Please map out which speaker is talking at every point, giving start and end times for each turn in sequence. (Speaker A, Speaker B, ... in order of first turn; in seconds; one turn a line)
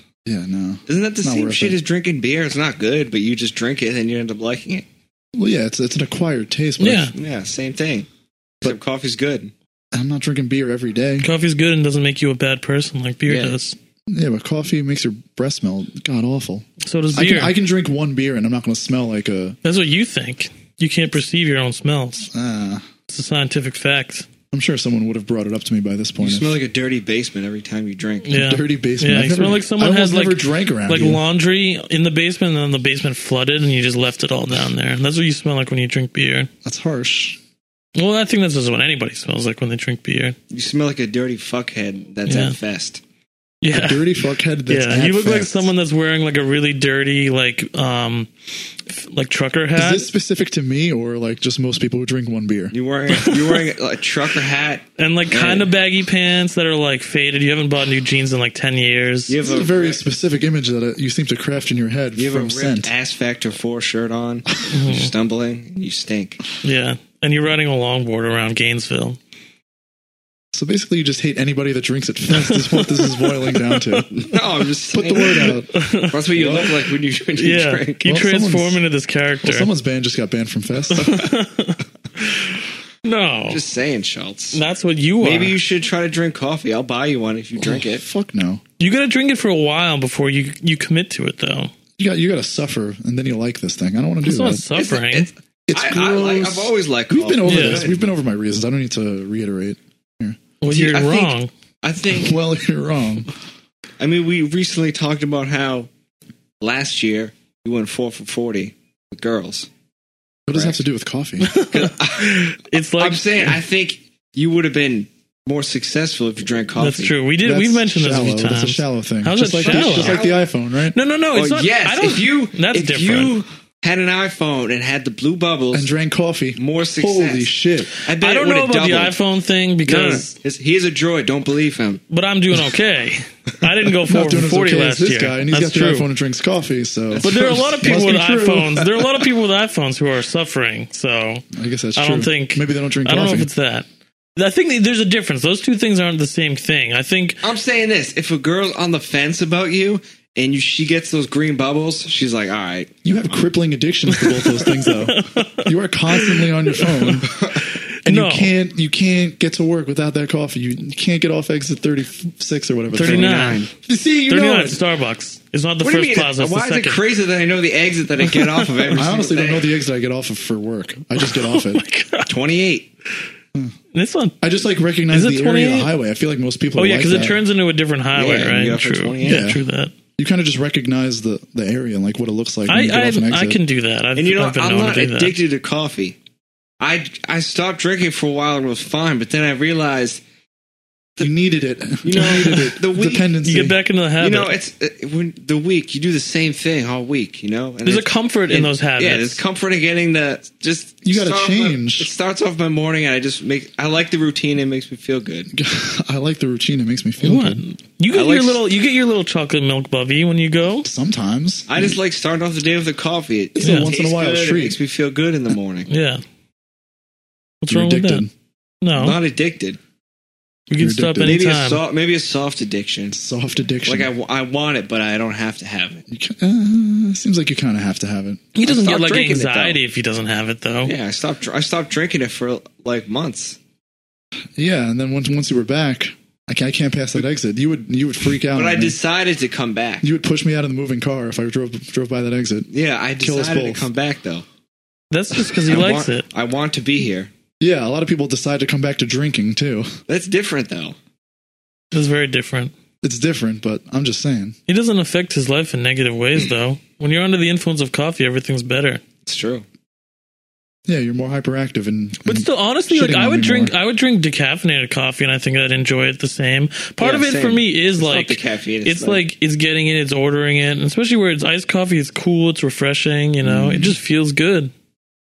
Speaker A: 0.2-1.8
Speaker B: 0.9-4.8
Speaker A: 5.3-7.1
Speaker C: 6.8-7.1
Speaker B: 7.2-8.1
Speaker B: 8.6-9.5
Speaker A: 9.9-11.3
Speaker C: 11.2-13.8
Speaker B: 13.3-13.6
Speaker A: 14.1-19.6
Speaker C: 16.8-17.6
Speaker C: 19.6-22.3
Speaker A: 22.3-22.8
Speaker C: 23.1-24.3
Speaker A: 24.5-26.6
Speaker B: 26.2-28.3
Speaker C: 28.2-36.5
Speaker A: 28.3-31.2
Speaker A: 36.6-37.4
Speaker C: 38.0-40.4
Speaker B: 40.5-43.0
Speaker C: 42.3-42.6
Speaker C: 43.6-44.0
Speaker A: 43.7-45.7
Speaker C: 44.7-48.3
Speaker C: 48.9-50.1
Speaker A: 49.8-52.8
Speaker B: 52.7-55.7
Speaker C: 53.1-53.6
Speaker C: 55.0-59.4
Speaker B: 59.3-60.0
Speaker A: 59.4-62.9
Speaker B: 62.1-66.4
Speaker C: 64.7-65.1
Speaker C: 66.6-69.2
Speaker A: 70.5-74.2
Speaker C: 72.3-74.0
Speaker B: 74.1-78.1
Speaker A: 74.9-76.8
Speaker C: 75.7-76.2
Speaker C: 77.4-79.7
Speaker A: 78.0-78.8
Speaker A: 79.4-81.3
Speaker C: 80.9-83.6
Speaker B: 83.5-84.6
Speaker C: 84.5-85.6
Speaker B: 85.2-88.0
Speaker A: 87.6-88.6
Speaker C: 88.8-91.7
Speaker A: 92.0-94.7
Speaker C: 94.2-95.3
Speaker B: 94.8-98.1
Speaker A: 95.7-100.4
Speaker C: 97.5-97.8
Speaker C: 100.6-101.5
Speaker B: 100.7-102.4
Speaker A: 102.1-103.3
Speaker B: 104.0-105.9
Speaker B: 106.6-109.7
Speaker A: 110.5-111.5
Speaker B: 110.5-110.8
Speaker C: 111.4-113.6
Speaker B: 111.6-117.1
Speaker C: 116.8-120.2
Speaker A: 117.4-121.0
Speaker B: 119.6-120.4
Speaker C: 120.9-123.3
Speaker B: 121.3-125.9
Speaker A: 125.7-127.9
Speaker B: 126.6-127.5
Speaker C: 128.0-130.3
Speaker B: 128.0-129.1
Speaker B: 129.9-132.0
Speaker C: 132.1-136.1
Speaker A: 134.1-138.8
Speaker B: 137.1-138.2
Speaker C: 137.2-141.4
Speaker A: 141.5-143.5
Speaker C: 142.0-147.4
Speaker B: 147.4-152.9
Speaker A: 153.0-157.4
Speaker C: 154.2-158.5
Speaker B: 157.3-157.6
Speaker A: 158.1-164.8
Speaker C: 162.9-163.7
Speaker B: 163.0-163.7
Speaker C: 164.3-167.0
Speaker B: 165.8-169.7
Speaker C: 168.3-168.8
Speaker A: 168.9-171.8
Speaker C: 171.2-172.3
Speaker B: 172.3-172.9
Speaker C: 173.9-174.4
Speaker A: 174.4-177.4
Speaker C: 175.1-175.9
Speaker C: 176.8-179.9
Speaker B: 178.2-179.5
Speaker A: 179.2-179.6
Speaker A: 180.2-183.6
Speaker C: 182.7-185.4
Speaker B: 184.2-186.2
Speaker B: 186.8-190.2
Speaker A: 191.2-193.8
Speaker B: 192.0-193.3
Speaker C: 192.2-192.8
Speaker C: 193.4-194.5
Speaker B: 194.2-205.5
Speaker C: 197.8-199.4
Speaker A: 201.0-202.1
Speaker A: 205.5-207.6
Speaker C: 207.2-210.9
Speaker B: 208.1-208.6
Speaker A: 210.8-212.0
Speaker B: 211.7-215.9
Speaker A: 213.6-214.8
Speaker C: 213.6-213.9
Speaker C: 215.9-216.2
Speaker C: 217.6-218.3
Speaker A: 217.7-218.3
Speaker C: 218.8-219.2
Speaker B: 219.0-219.8
Speaker C: 220.7-221.8
Speaker A: 220.8-221.4
Speaker B: 221.2-223.2
Speaker A: 223.1-224.1
Speaker B: 223.8-226.1
Speaker A: 226.1-228.5
Speaker C: 228.6-230.9
Speaker B: 228.7-229.8
Speaker B: 230.8-233.6
Speaker A: 234.6-239.0
Speaker B: 238.5-240.1
Speaker A: 240.0-242.7
Speaker B: 242.7-244.4
Speaker A: 243.2-243.9
Speaker C: 245.1-246.2
Speaker B: 245.5-247.3
Speaker A: 247.6-249.9
Speaker B: 250.1-251.0
Speaker C: 251.9-252.7
Speaker A: 253.0-254.6
Speaker C: 254.7-259.0
Speaker B: 259.3-259.6
Speaker A: 260.9-263.7
Speaker C: 262.2-274.7
Speaker B: 267.0-269.2
Speaker A: 273.4-274.0